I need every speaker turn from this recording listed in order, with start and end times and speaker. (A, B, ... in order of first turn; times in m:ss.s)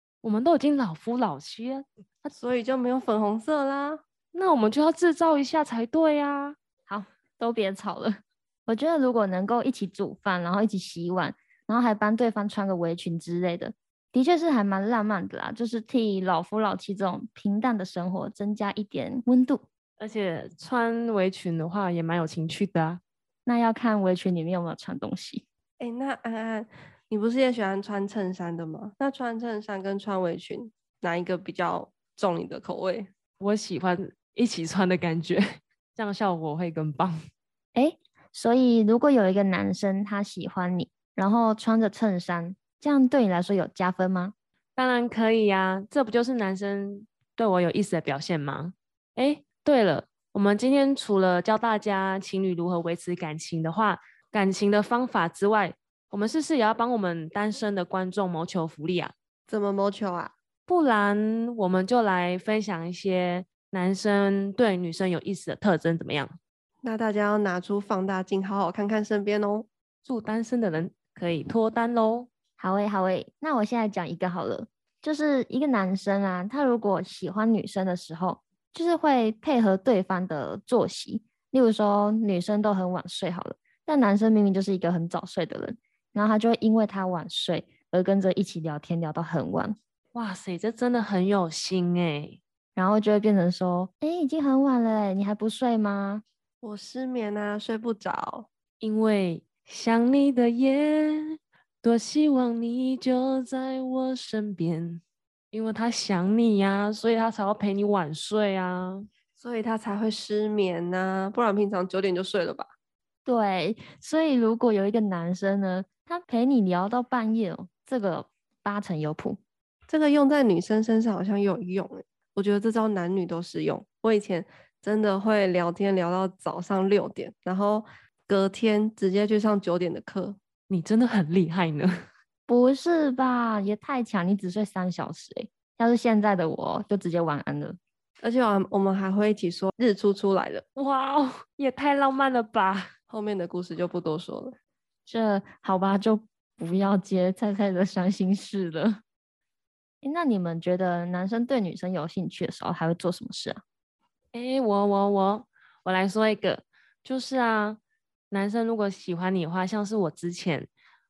0:00.2-0:02.4 A
0:02.4-0:04.0 B
0:04.3-0:06.6 A
0:06.9-0:19.6 C
0:20.0-0:23.0 A
0:23.5-0:25.4 C
0:25.8-0:33.1 B
0:33.4-0:35.4 A
0:36.0-0:37.2 A
0:37.7-0:44.3 C
0:44.8-0:59.1 A
0:59.5-1:00.3 B
1:00.7-1:06.4 A
1:06.8-1:09.7 B
1:10.0-1:12.3 A
1:12.6-1:29.8 C
1:30.2-1:32.4 A
1:32.8-1:36.2 C
1:36.6-1:38.5 B
1:38.8-1:41.2 A
1:41.8-1:49.1 A
1:49.4-1:52.7 B
1:53.2-1:59.4 C
1:59.9-2:10.4 B
2:10.7-2:11.9 A
2:12.5-2:17.8 C
2:18.2-2:20.6 B
2:20.8-2:22.9 A
2:23.1-2:24.6 B
2:25.1-2:29.0 C
2:30.0-2:33.6 C
2:34.3-2:37.8 A
2:38.3-2:40.7 A